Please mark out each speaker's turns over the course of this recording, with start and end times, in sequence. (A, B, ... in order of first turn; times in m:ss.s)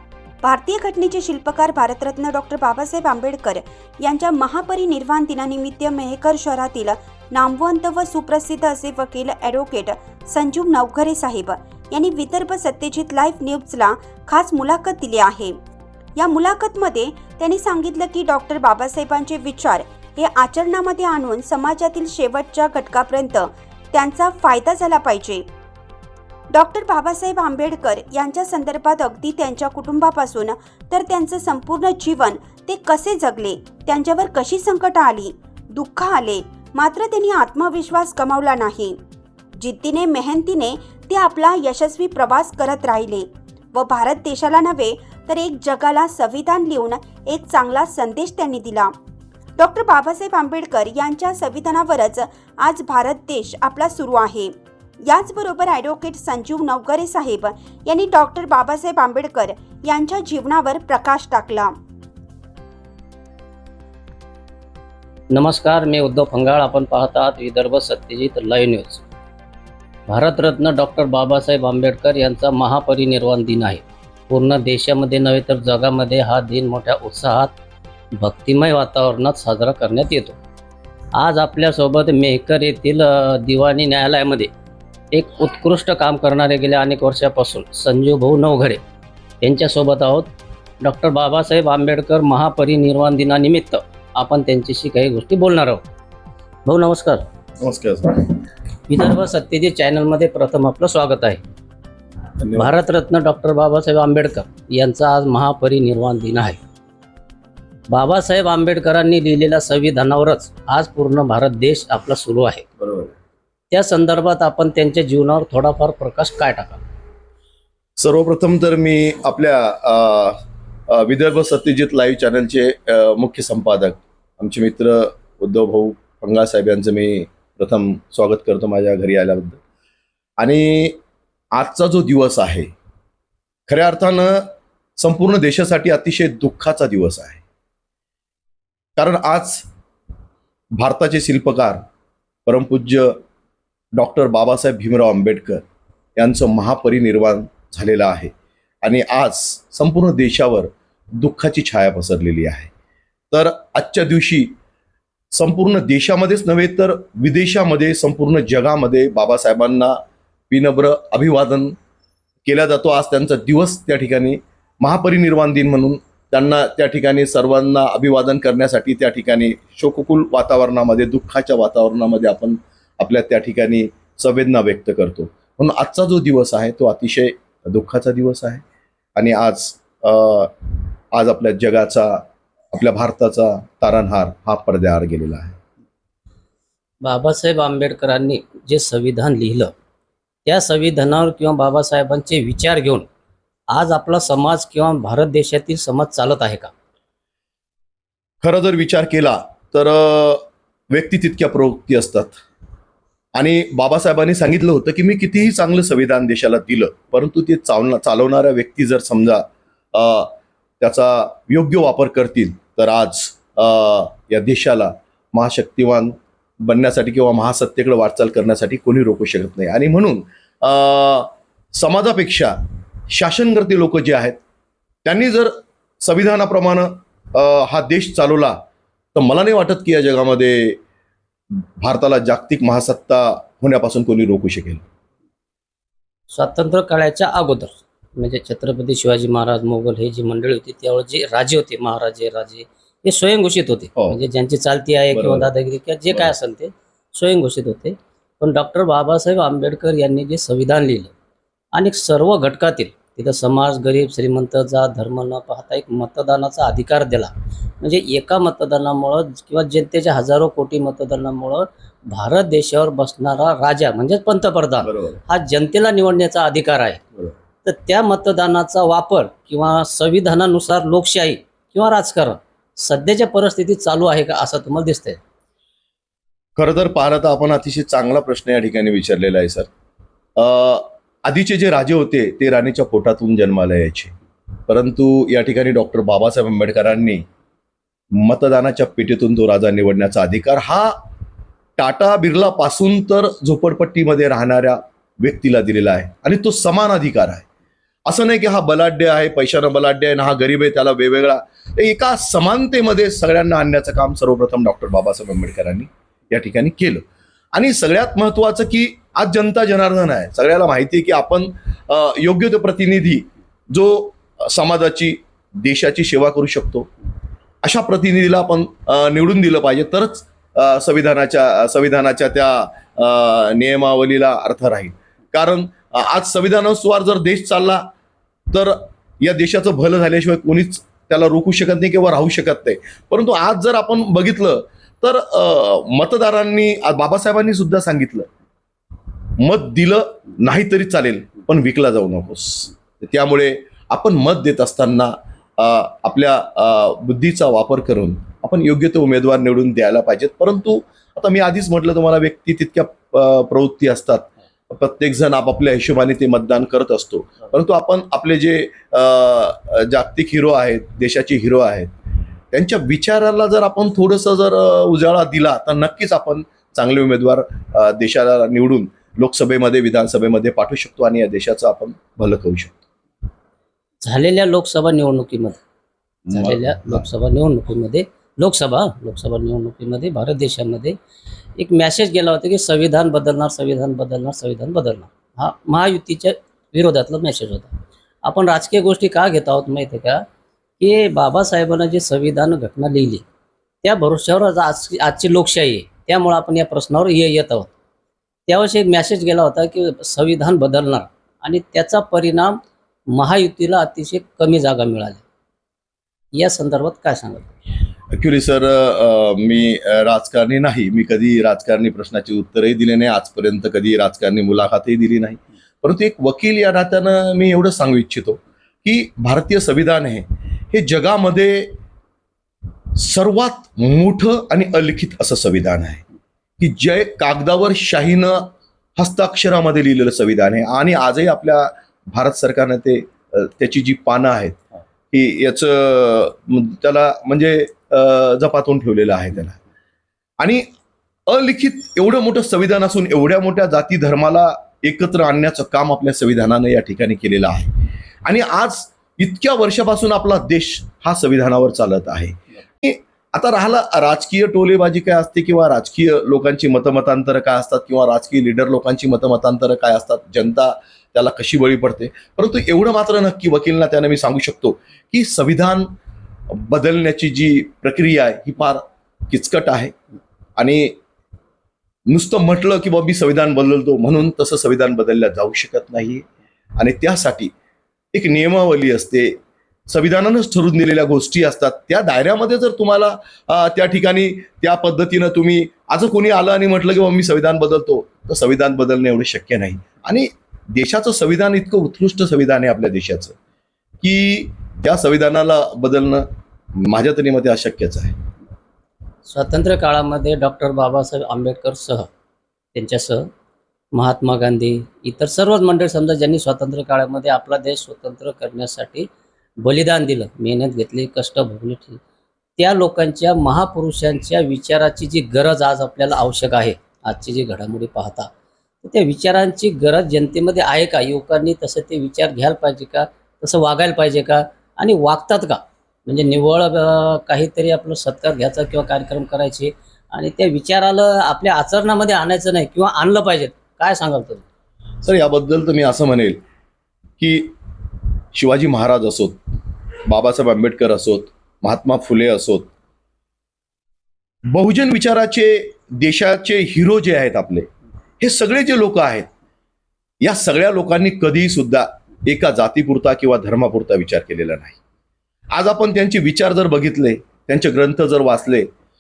0:00.4-0:15.6 A
0:16.2-0:25.5 A
0:26.5-0:39.0 A
0:39.6-0:48.9 A
0:49.6-1:01.7 A
1:05.3-1:09.0 B
1:10.1-1:17.6 B
1:18.1-1:20.4 B
1:21.1-1:24.5 B
1:25.1-1:28.8 B
1:29.4-1:30.3 B
1:30.8-1:35.8 B
1:36.6-1:37.2 B
1:37.6-1:38.4 C
1:38.9-1:41.4 B
1:42.4-1:42.8 C
1:42.6-1:46.6 B
1:47.9-1:52.6 B
1:52.8-1:53.1 C
1:53.7-1:56.8 B
1:58.0-2:09.6 C
2:10.4-2:11.0 C
2:11.5-2:12.7 C
2:13.7-2:17.4 C
2:19.0-2:19.7 C
2:20.8-2:21.8 C
2:22.5-2:23.2 C
2:23.9-2:25.6 C
2:26.2-2:32.7 C
2:33.3-2:34.5 C
2:35.3-2:40.0 C
2:40.5-2:41.8 C
2:42.4-2:58.6 C
2:59.2-3:00.6 C
3:01.1-3:05.6 C
3:07.0-3:09.7 B
3:10.4-3:13.1 B
3:13.7-3:16.7 B
3:18.4-3:22.4 C
3:23.3-3:42.6 C
3:43.1-3:44.4 C
3:45.0-3:48.6 C
3:49.2-3:50.8 C
3:51.8-3:54.8 C
3:56.3-4:11.1 B
4:05.1-4:05.5 C
4:11.7-4:27.0 B
4:24.8-4:25.2 C
4:27.6-4:35.2 B
4:36.6-4:39.7 C
4:40.4-4:44.1 C
4:44.7-4:47.2 C
4:48.1-4:51.0 C
4:51.8-4:57.4 C
4:58.1-5:16.9 C
5:17.6-5:27.9 C
5:28.5-5:38.3 C
5:39.4-6:01.9 C
6:02.5-6:12.8 C
6:14.0-6:15.6 B
6:16.3-6:17.1 C
6:16.3-6:20.9 B
6:21.6-6:30.2 B
6:30.8-6:33.2 B
6:33.8-6:37.7 B
6:38.5-6:45.2 B
6:46.3-6:47.5 B
6:48.1-7:01.8 C
7:03.0-7:06.0 C
7:06.6-7:19.6 C
7:20.4-7:20.6 C
7:21.3-7:45.9 C
7:46.5-7:49.9 C
7:50.6-7:51.0 C
7:52.1-7:56.2 C
7:56.8-7:57.5 C
7:58.1-8:13.4 C
8:14.0-8:18.2 C
8:19.2-8:22.1 B
8:22.7-8:23.3 B
8:23.9-8:29.1 B
8:29.6-8:32.0 B
8:32.6-8:38.3 B
8:38.8-8:54.4 B
8:55.0-8:56.4 C
8:57.2-8:57.5 C
8:58.3-8:59.4 C
9:00.0-9:02.7 C
9:04.5-9:07.7 C
9:08.2-9:09.3 C
9:10.2-9:14.8 C
9:15.5-9:18.7 C